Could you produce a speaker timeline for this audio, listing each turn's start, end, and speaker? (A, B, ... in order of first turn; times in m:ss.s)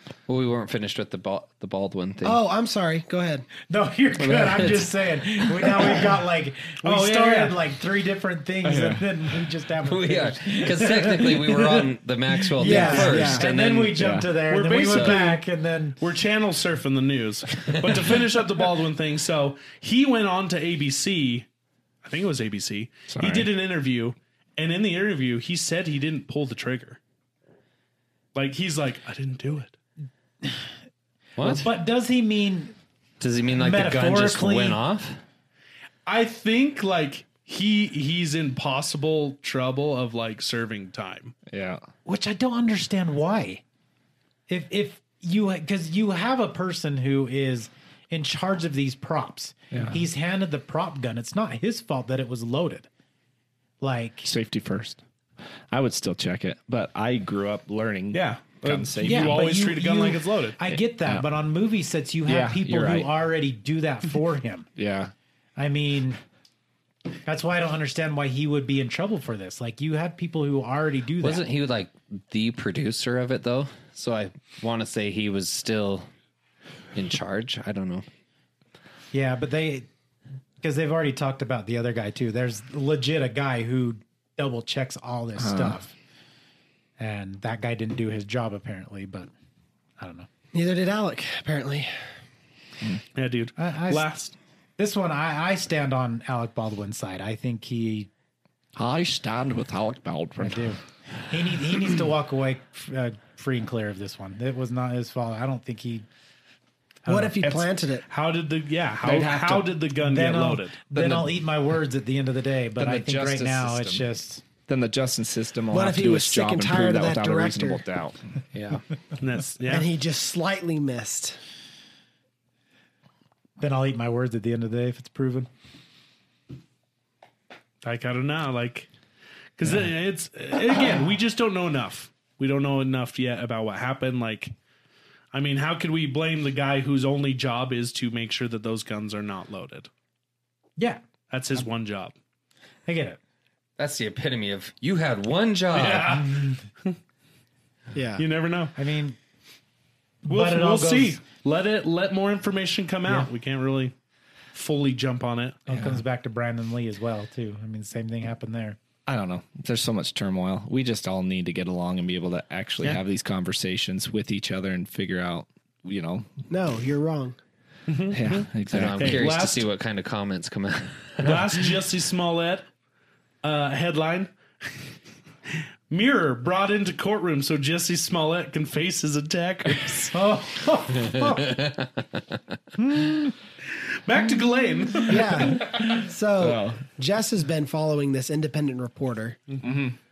0:00.3-0:02.4 A
0:02.2-0:03.5 B
0:03.7-0:16.0 C
0:04.2-0:04.9 A
0:05.6-0:06.0 A
0:06.8-0:07.6 D
0:08.6-0:09.1 E
0:09.8-0:14.0 A
0:12.6-0:13.4 B
0:14.0-0:15.2 E
0:14.5-0:15.4 D
0:16.0-0:21.4 D
0:17.7-0:18.0 A
0:22.0-0:27.0 D
0:23.1-0:23.5 E
0:28.3-0:29.8 D
0:30.4-0:30.7 C
0:31.4-0:31.7 A
0:31.4-0:32.7 C
0:33.2-0:35.2 A
0:33.6-0:34.8 C
0:36.0-0:41.3 D
0:41.5-0:41.8 E
0:42.0-0:43.6 C
0:44.5-0:52.9 C
0:49.7-0:50.0 E
0:53.8-0:54.3 C
0:54.2-0:55.0 E
0:55.7-0:59.6 E
0:58.1-1:00.6 D
0:59.0-1:04.7 C
1:00.7-1:01.2 E
1:02.2-1:03.1 E
1:04.8-1:05.1 E
1:05.6-1:06.2 C
1:07.2-1:11.4 C
1:11.2-1:16.1 A
1:16.9-1:18.0 A
1:19.1-1:19.9 C
1:20.6-1:25.9 C
1:25.4-1:25.8 E
1:27.0-1:29.3 C
1:30.0-1:30.3 C
1:30.5-1:31.9 B
1:33.1-1:34.4 D
1:33.6-1:34.1 C
1:34.8-1:38.1 C
1:38.8-1:40.7 E
1:40.4-1:46.0 C
1:47.0-1:47.3 C
1:47.0-1:48.0 B
1:48.1-1:50.8 D
1:49.0-1:49.7 E
1:50.0-1:54.4 C
1:50.9-1:51.3 E
1:52.8-1:54.1 E
1:54.7-1:58.2 E
1:55.7-1:57.8 B
1:58.5-1:58.8 A
1:59.2-1:59.9 D
1:59.7-2:01.4 B
2:03.6-2:05.5 C
2:07.8-2:08.9 D
2:09.6-2:14.5 D
2:15.3-2:19.9 D
2:21.3-2:22.1 D
2:22.9-2:23.2 C
2:23.8-2:26.2 A
2:25.7-2:26.9 D
2:26.1-2:26.6 C
2:27.9-2:28.2 B
2:28.2-2:28.7 D
2:28.8-2:29.2 C
2:30.2-2:31.2 C
2:30.3-2:33.9 D
2:34.5-2:35.6 D
2:35.7-2:38.8 C
2:35.7-2:36.0 E
2:39.1-2:46.3 E
2:46.5-2:47.4 B
2:47.9-2:49.7 D
2:48.1-2:49.2 E
2:48.7-2:51.6 A
2:51.2-2:52.6 D
2:53.4-2:54.8 D
2:55.9-3:00.1 D
3:00.1-3:01.5 C
3:01.2-3:02.2 A
3:02.8-3:03.1 C
3:04.0-3:05.5 D
3:05.1-3:09.5 B
3:06.4-3:06.8 E
3:09.6-3:10.0 E